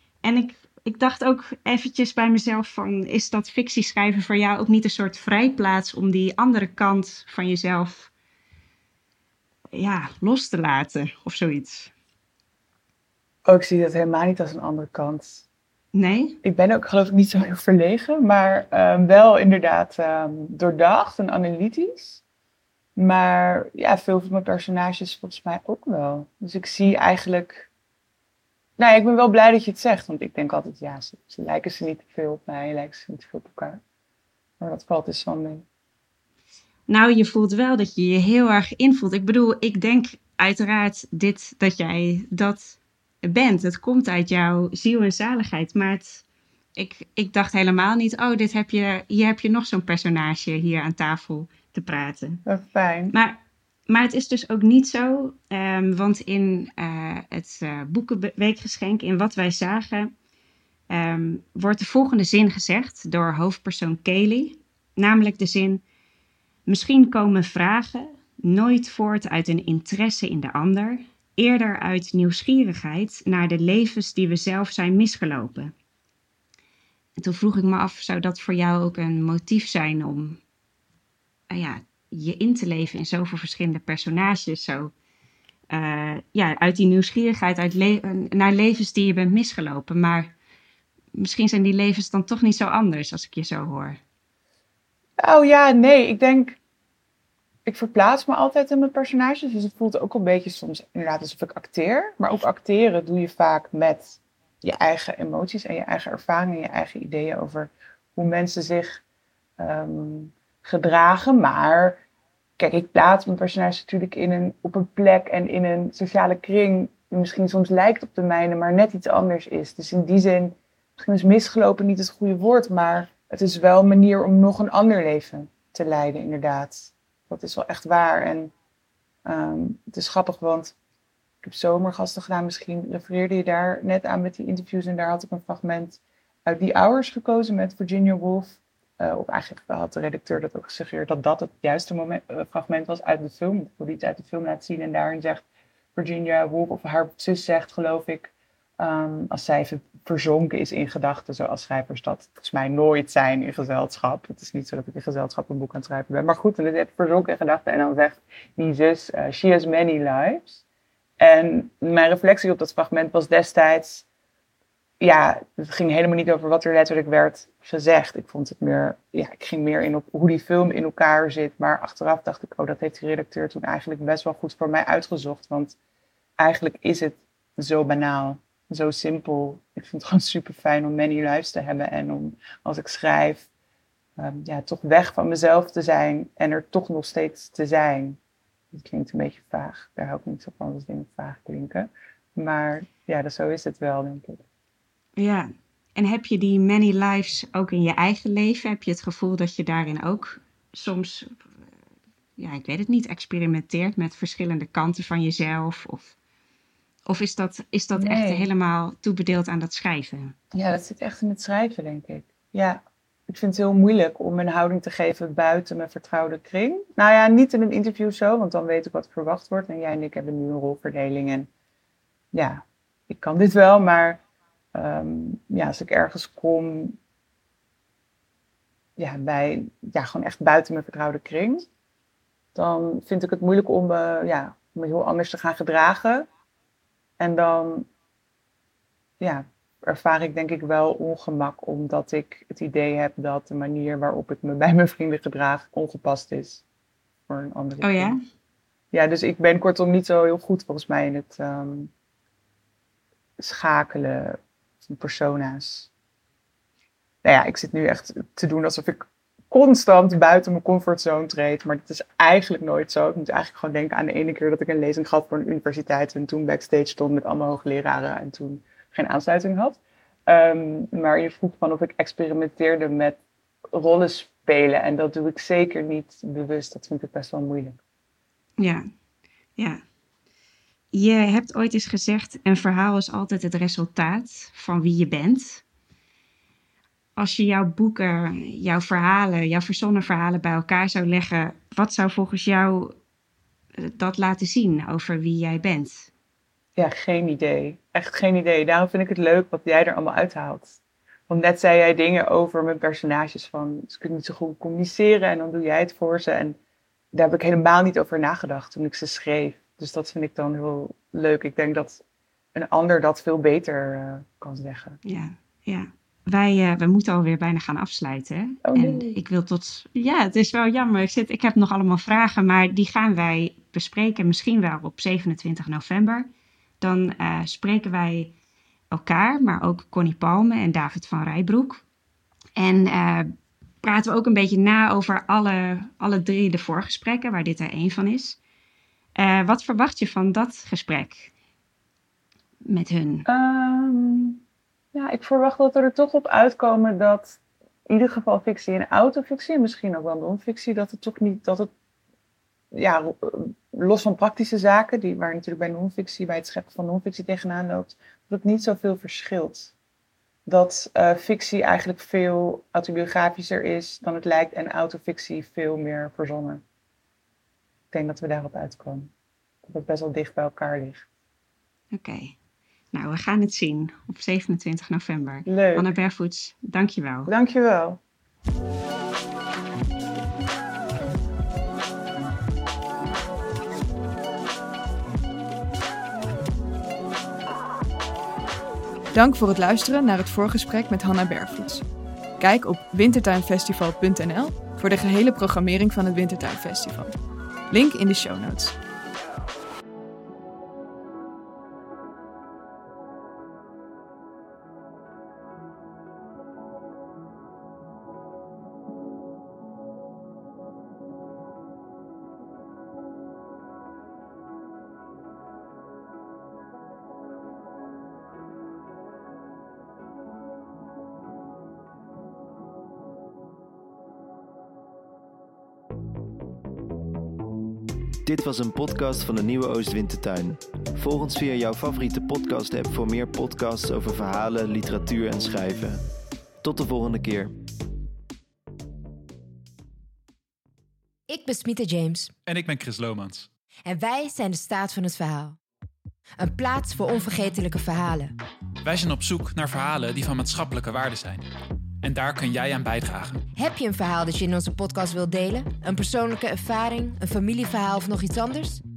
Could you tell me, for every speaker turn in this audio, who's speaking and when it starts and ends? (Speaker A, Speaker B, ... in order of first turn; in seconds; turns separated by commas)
Speaker A: 0.2-8.1, Speaker A: 9.7-11.9, Speaker B: 13.4-15.4, Speaker A: 15.9-16.4, Speaker B: 16.4-22.2, Speaker B: 22.9-27.7, Speaker B: 28.8-33.8, Speaker B: 34.6-35.6, Speaker A: 36.9-46.2, Speaker A: 46.8-52.4, Speaker B: 52.5-53.1, Speaker A: 53.1-60.1, Speaker A: 60.9-65.8, Speaker A: 66.7-75.7, Speaker A: 77.2-80.4, Speaker A: 81.5-84.9, Speaker A: 85.7-90.3, Speaker A: 91.2-94.0, Speaker B: 95.2-96.6, Speaker B: 97.7-109.0, Speaker B: 109.6-112.0, Speaker B: 112.6-128.5, Speaker B: 129.2-130.7, Speaker B: 131.4-145.4, Speaker B: 145.9-160.6, Speaker B: 161.2-164.1, Speaker B: 165.0-175.8, Speaker B: 176.4-183.5, Speaker B: 184.2-188.2, Speaker B: 188.7-194.4, Speaker A: 195.2-201.4, Speaker A: 202.4-206.1, Speaker A: 207.1-210.3, Speaker B: 207.9-208.5, Speaker B: 210.5-221.5, Speaker B: 222.3-224.2, Speaker B: 224.7-227.0, Speaker B: 229.0-231.7, Speaker B: 232.5-236.3, Speaker B: 237.2-237.9, Speaker B: 239.2-246.6, Speaker B: 247.3-248.2, Speaker A: 247.8-248.2, Speaker B: 248.9-251.9, Speaker B: 253.4-255.9, Speaker B: 257.2-273.2, Speaker B: 273.7-277.8, Speaker A: 278.6-278.8, Speaker A: 279.6-279.8, Speaker A: 280.9-285.6, Speaker A: 287.2-292.9, Speaker A: 293.8-296.1, Speaker B: 296.8-306.6, Speaker B: 307.1-312.0, Speaker B: 312.5-315.0, Speaker A: 315.0-326.3, Speaker B: 318.6-319.2, Speaker A: 326.8-328.3, Speaker A: 328.9-331.8, Speaker A: 332.6-333.3, Speaker A: 333.8-338.4, Speaker A: 339.1-341.3, Speaker A: 342.6-343.3, Speaker B: 343.2-344.4, Speaker B: 344.9-351.7, Speaker B: 352.7-359.7, Speaker B: 360.4-366.6, Speaker B: 367.9-369.1, Speaker B: 369.6-371.0, Speaker A: 371.9-372.4, Speaker A: 372.9-377.3, Speaker B: 375.4-375.9, Speaker B: 377.3-378.0, Speaker C: 389.1-391.8, Speaker C: 392.4-397.1, Speaker C: 397.7-398.7, Speaker D: 428.2-436.0, Speaker D: 436.6-437.5, Speaker E: 441.3-442.3, Speaker F: 442.4-443.5, Speaker E: 443.9-445.6, Speaker E: 446.4-448.3, Speaker F: 448.8-451.4, Speaker F: 452.0-453.4, Speaker E: 453.5-458.8